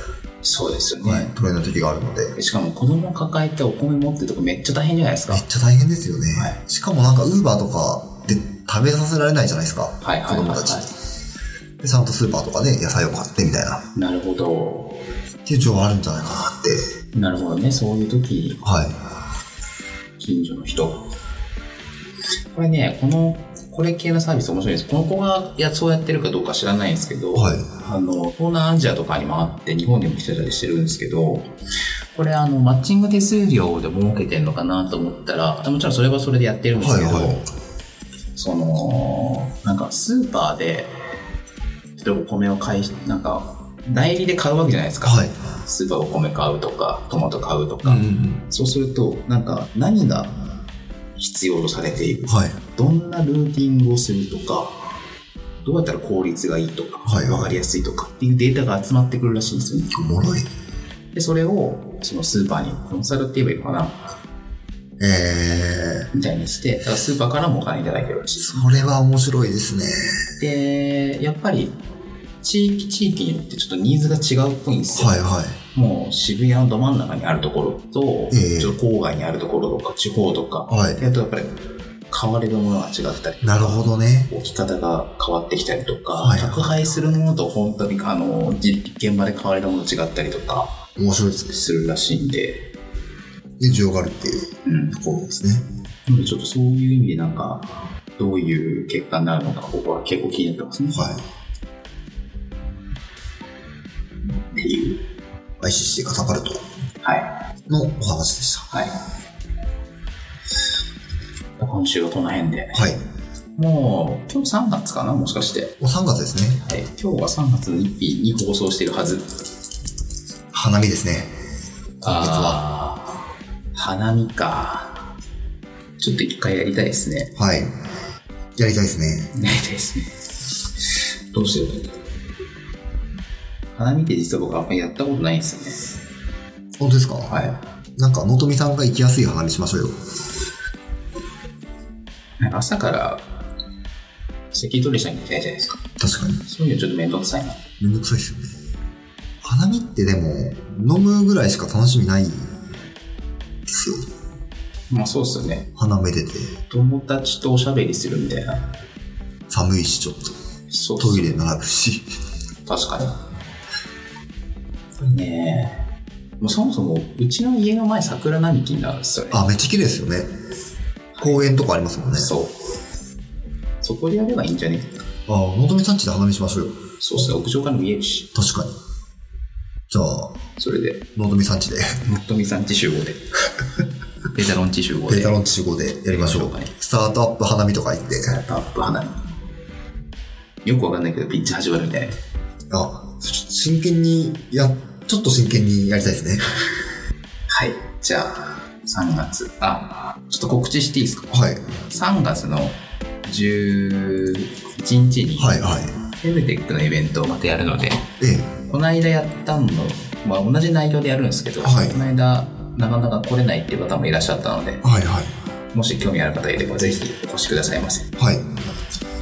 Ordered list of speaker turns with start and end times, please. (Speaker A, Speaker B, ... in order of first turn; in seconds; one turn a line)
Speaker A: 0.4-1.3
Speaker B: 1.0-2.3
Speaker A: 2.4-5.4
Speaker B: 5.3-10.9
Speaker A: 10.0-10.9
Speaker B: 11.8-13.8
Speaker A: 13.9-15.1
Speaker B: 15.5-16.9
Speaker A: 17.1-18.6
Speaker B: 18.6-19.0
Speaker A: 20.2-21.1
Speaker A: 22.5-31.5
Speaker B: 27.4-27.7
Speaker A: 32.1-37.5
Speaker B: 36.8-37.5
Speaker A: 38.4-40.9
Speaker A: 42.0-50.5
Speaker B: 45.0-45.3
Speaker B: 47.9-48.5
Speaker A: 51.2-54.8
Speaker B: 52.3-52.6
Speaker A: 55.6-59.9
Speaker B: 57.0-57.6
Speaker B: 59.9-60.5
Speaker A: 61.1-64.0
Speaker B: 65.0-66.1
Speaker A: 66.1-68.7
Speaker B: 68.4-70.2
Speaker A: 70.4-71.8
Speaker A: 72.4-81.6
Speaker B: 74.9-75.6
Speaker B: 78.3-78.8
Speaker B: 80.7-81.0
Speaker A: 82.1-90.8
Speaker B: 83.4-84.3
Speaker B: 86.2-87.2
Speaker B: 91.0-91.6
Speaker A: 91.5-92.7
Speaker B: 93.6-95.6
Speaker A: 94.7-95.0
Speaker A: 96.1-101.1
Speaker B: 100.9-101.2
Speaker A: 104.5-105.0
Speaker B: 105.6-106.6
Speaker A: 107.0-107.3
Speaker B: 107.7-108.7
Speaker A: 108.7-109.0
Speaker A: 111.6-113.0
Speaker B: 112.7-113.0
Speaker A: 113.6-115.7
Speaker B: 115.8-116.6
Speaker A: 116.6-119.3
Speaker B: 120.5-121.3
Speaker A: 122.0-123.1
Speaker B: 122.0-122.6
Speaker A: 123.8-125.0
Speaker A: 126.0-127.3
Speaker B: 127.4-127.7
Speaker B: 128.6-129.3
Speaker A: 129.3-130.2
Speaker A: 131.3-131.9
Speaker A: 133.8-135.9
Speaker B: 136.8-137.4
Speaker A: 137.3-137.6
Speaker B: 138.0-139.9
Speaker A: 142.4-143.3
Speaker A: 144.5-145.8
Speaker B: 146.0-146.4
Speaker A: 146.4-147.6
Speaker B: 147.8-148.5
Speaker B: 149.4-152.5
Speaker B: 153.7-154.1
Speaker A: 154.9-155.7
Speaker B: 155.8-156.6
Speaker A: 156.7-158.7
Speaker B: 159.5-160.3
Speaker A: 160.7-161.3
Speaker B: 161.0-162.1
Speaker A: 162.7-163.2
Speaker A: 165.0-165.8
Speaker A: 166.4-169.4
Speaker B: 169.3-170.3
Speaker A: 171.2-171.4
Speaker B: 171.2-172.3
Speaker A: 172.2-172.6
Speaker A: 173.8-175.0
Speaker B: 175.3-176.8
Speaker A: 177.0-178.3
Speaker B: 178.3-178.8
Speaker B: 179.9-180.3
Speaker A: 180.6-181.0
Speaker B: 181.2-182.0
Speaker A: 182.0-183.3
Speaker A: 184.3-185.4
Speaker B: 185.1-188.4
Speaker A: 186.1-186.7
Speaker A: 188.3-189.3
Speaker A: 190.6-192.2
Speaker B: 192.7-196.5
Speaker A: 197.5-201.4
Speaker B: 201.3-201.7
Speaker A: 201.9-208.1
Speaker B: 205.4-205.9
Speaker B: 208.2-208.5
Speaker A: 208.7-214.8
Speaker B: 211.6-212.0
Speaker B: 214.8-215.3
Speaker A: 215.7-218.1
Speaker B: 218.2-218.5